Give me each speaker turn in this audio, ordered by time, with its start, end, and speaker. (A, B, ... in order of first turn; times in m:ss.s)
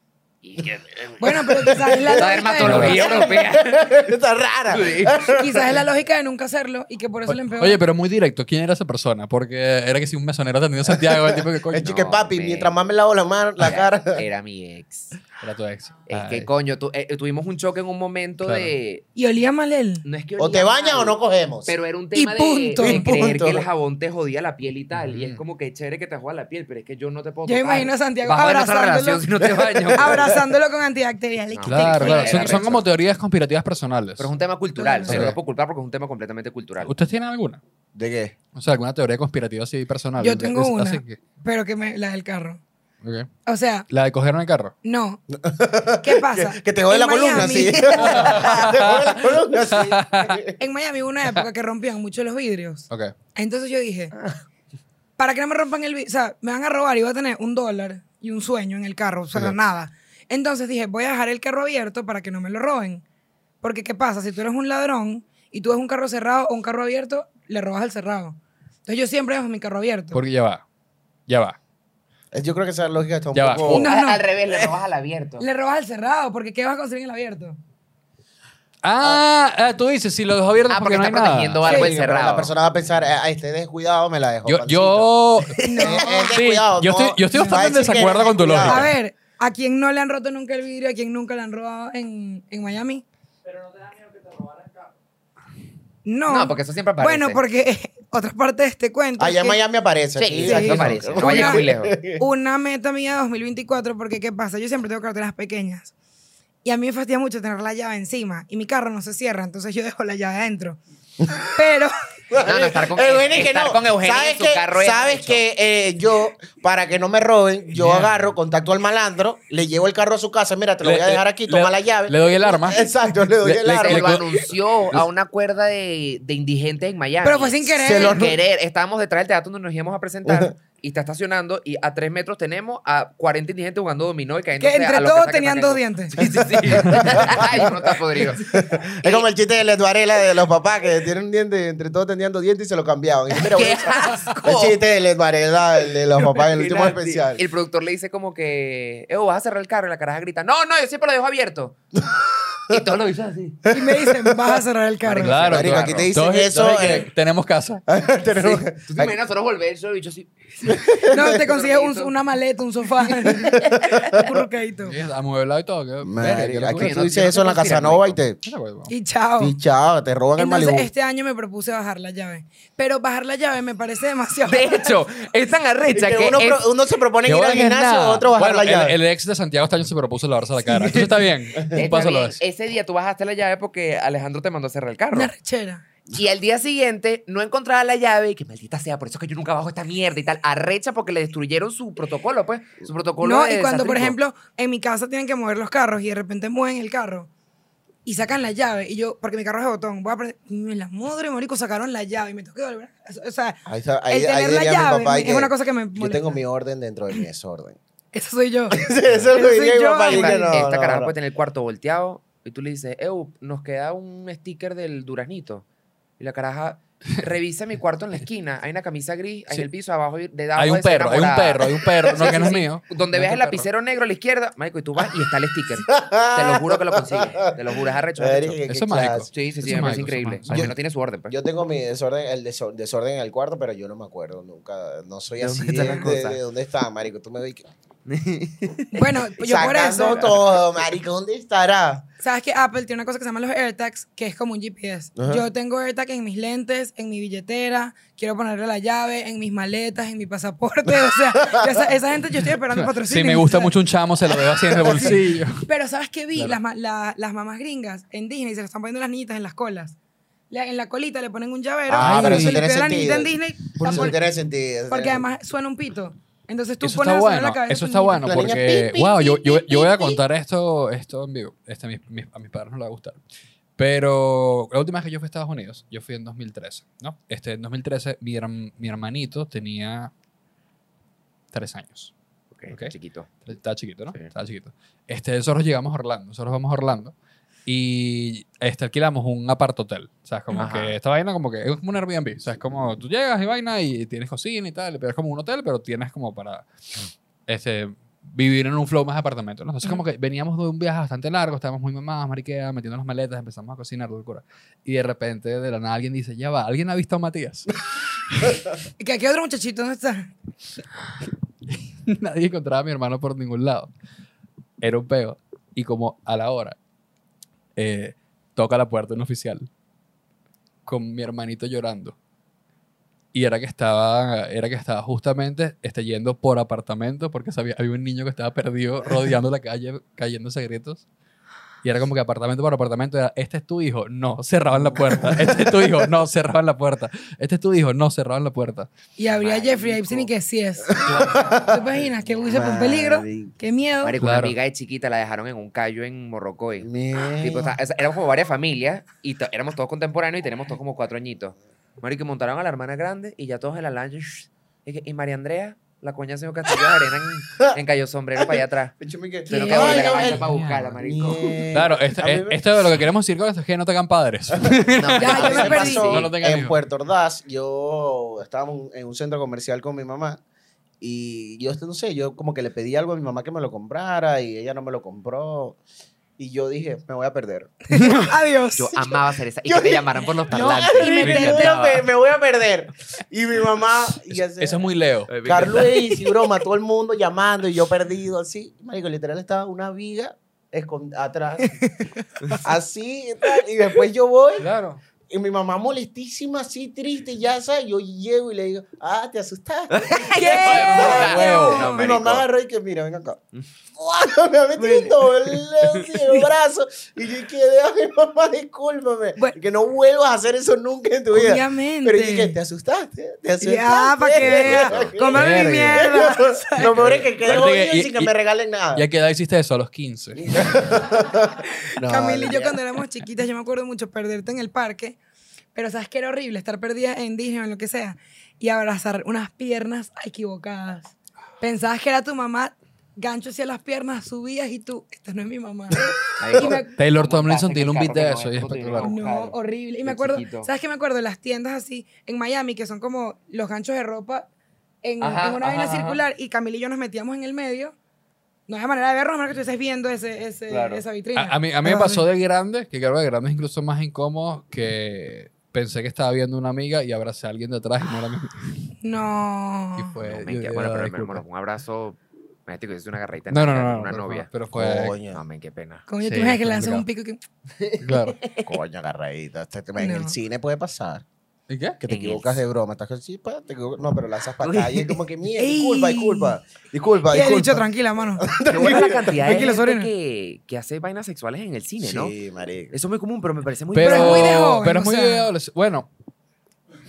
0:00.4-0:04.1 A
0:01.2-0:03.3 B
0:01.2-0:05.8 C
0:02.6-0:03.0 D
0:04.7-0:05.3 A
0:05.3-0:07.8 B
0:07.3-0:11.9 D
0:10.8-0:14.2 C
0:11.8-0:12.8 A
0:13.6-0:15.2 A
0:15.4-0:16.5 D
0:16.1-0:19.0 A
0:18.4-0:18.7 D
0:19.2-0:20.0 B
0:20.0-0:30.4 A
0:20.4-0:21.7 C
0:22.1-0:23.2 B
0:22.8-0:23.7 C
0:25.0-0:25.4 D
0:27.4-0:29.3 B
0:29.6-0:30.3 C
0:29.9-0:32.8 B
0:31.5-0:32.8 A
0:31.6-0:34.3 D
0:34.2-0:36.9 A
0:34.8-0:35.2 B
0:35.1-0:35.4 D
0:36.8-0:37.6 D
0:37.9-0:38.3 C
0:38.5-0:41.2 D
0:40.2-0:42.6 B
0:43.0-0:43.3 D
0:43.4-0:43.9 B
0:43.9-0:44.7 D
0:44.8-0:45.2 B
0:45.3-0:50.6 C
0:46.0-0:48.6 B
0:48.0-0:50.4 D
0:50.6-0:54.1 B
0:52.9-0:53.1 D
0:55.2-1:03.0 B
1:03.6-1:10.2 B
1:10.1-1:10.6 D
1:11.3-1:11.6 D
1:12.3-1:13.9 C
1:13.3-1:13.9 D
1:13.7-1:14.2 B
1:13.7-1:15.4 A
1:15.4-1:17.6 B
1:18.8-1:21.6 D
1:20.7-1:22.5 A
1:21.6-1:28.9 C
1:21.7-1:21.9 B
1:24.4-1:28.9 D
1:25.6-1:26.4 B
1:27.3-1:27.6 B
1:28.6-1:33.0 B
1:36.0-1:39.6 B
1:36.3-1:37.4 A
1:39.2-1:42.2 C
1:40.2-1:42.0 A
1:40.4-1:45.9 B
1:46.6-1:50.8 B
1:51.5-1:51.9 B
1:52.3-2:04.2 C
1:52.4-1:55.4 A
1:57.7-1:58.1 D
2:00.8-2:02.8 D
2:03.4-2:05.0 D
2:03.7-2:19.3 A
2:07.2-2:08.3 B
2:07.8-2:08.4 C
2:10.2-2:10.5 C
2:14.6-2:16.2 B
2:16.7-2:17.2 D
2:16.7-2:27.4 C
2:23.3-2:24.8 A
2:24.1-2:24.4 B
2:26.3-2:31.8 A
2:31.9-2:32.8 C
2:32.7-2:33.6 A
2:33.6-2:34.6 C
2:33.7-2:35.4 B
2:35.0-2:37.0 A
2:35.2-2:37.8 D
2:35.4-2:37.1 C
2:37.9-2:39.1 C
2:38.3-2:42.1 A
2:40.6-2:41.4 C
2:41.0-2:45.0 B
2:43.3-2:44.3 C
2:44.8-2:47.0 D
2:46.0-2:48.4 C
2:46.7-2:48.2 A
2:48.4-2:48.9 D
2:48.9-2:49.5 B
2:49.4-2:50.9 C
2:50.4-2:55.0 B
2:54.4-2:56.6 A
2:55.9-2:59.0 C
2:57.2-3:02.4 D
3:01.6-3:01.8 C
3:01.7-3:05.3 A
3:05.1-3:05.8 B
3:06.1-3:14.2 A
3:13.2-3:17.3 B
3:18.0-3:26.4 B
3:23.7-3:27.8 C
3:28.1-3:28.8 B
3:28.7-3:31.1 C
3:29.3-3:30.6 B
3:30.1-3:35.6 A
3:36.2-3:48.6 A
3:40.6-3:43.7 D
3:42.0-3:42.6 C
3:45.9-3:50.0 C
3:48.7-3:50.7 D
3:49.3-3:51.3 A
3:50.5-3:50.7 C
3:51.3-3:57.7 C
3:55.4-3:56.4 A
3:58.1-3:59.1 A
3:58.9-4:00.3 B
3:59.4-4:02.0 C
4:00.0-4:00.6 A
4:02.2-4:13.8 B
4:05.2-4:05.5 C
4:10.9-4:11.9 C
4:12.7-4:15.7 D
4:14.8-4:15.2 C
4:14.8-4:20.0 B
4:20.5-4:24.2 B
4:21.9-4:25.2 C
4:22.0-4:22.6 D
4:23.8-4:24.1 D
4:24.9-4:28.5 B
4:26.8-4:33.2 D
4:28.2-4:30.2 C
4:33.8-4:40.1 D
4:41.5-4:42.1 D
4:42.5-4:43.3 A
4:42.7-4:42.9 D
4:43.4-4:47.1 D
4:47.6-4:56.7 D
4:50.6-4:51.0 A
4:57.5-5:07.7 D
5:08.3-5:08.6 D
5:09.0-5:10.3 B
5:12.1-5:13.9 D
5:14.8-5:16.8 D
5:17.8-5:19.7 D
5:20.8-5:22.2 D
5:23.3-5:31.0 D
5:31.8-5:38.9 D
5:34.8-5:35.9 C
5:39.2-5:44.2 B
5:39.3-5:40.3 A
5:41.0-5:41.7 C
5:41.0-5:42.5 A
5:42.5-5:43.5 C
5:44.0-5:59.0 A
5:44.2-5:44.5 D
5:46.8-5:47.7 C
5:58.4-6:02.7 C
5:59.5-6:01.6 A
5:59.5-6:00.4 B
6:00.2-6:00.9 D
6:01.7-6:06.8 D
6:04.5-6:10.4 C
6:05.0-6:06.3 A
6:05.2-6:06.1 B
6:11.0-6:15.8 C
6:16.4-6:18.1 C
6:17.9-6:19.0 B
6:17.9-6:18.2 D
6:18.8-6:22.0 A
6:19.6-6:24.8 C
6:20.5-6:21.8 B
6:21.2-6:21.6 D
6:24.3-6:25.7 D
6:25.3-6:26.0 A
6:25.4-6:31.8 C
6:31.7-6:32.1 B
6:32.6-6:34.7 C
6:34.6-6:35.0 D
6:35.3-6:43.4 C
6:39.9-6:42.5 A
6:40.2-6:42.1 B
6:40.7-6:41.8 D
6:44.0-6:59.0 C
6:44.8-6:45.1 B
6:45.8-6:46.1 A
6:51.3-6:52.5 B
6:53.6-6:57.0 B
6:54.4-6:55.1 A
6:55.3-6:56.1 D
6:56.8-6:58.3 D
6:58.9-7:00.4 D
7:00.3-7:02.8 C
7:02.0-7:05.2 B
7:05.7-7:16.9 B
7:16.0-7:16.8 C
7:16.4-7:20.7 A
7:17.0-7:19.1 D
7:19.0-7:24.4 B
7:25.0-7:27.9 B
7:25.2-7:26.2 A
7:28.7-7:32.2 B
7:30.7-7:31.0 A
7:31.3-7:38.8 D
7:39.0-7:40.1 B
7:40.0-7:41.4 D
7:40.2-7:44.5 A
7:43.5-7:45.2 D
7:44.7-7:45.4 C
7:45.3-7:46.1 A
7:46.1-7:47.4 B
7:46.2-7:47.0 D
7:48.0-7:48.4 D
7:48.6-7:51.2 C
7:50.0-7:50.3 B
7:51.7-7:52.0 D
7:52.0-7:59.6 C
7:52.1-7:52.6 A
7:54.6-7:55.2 A
7:55.6-7:56.6 B
7:57.3-8:00.1 B
7:58.7-8:02.3 A
8:02.0-8:02.9 C
8:02.9-8:04.6 A
8:03.9-8:06.1 D
8:04.0-8:05.5 B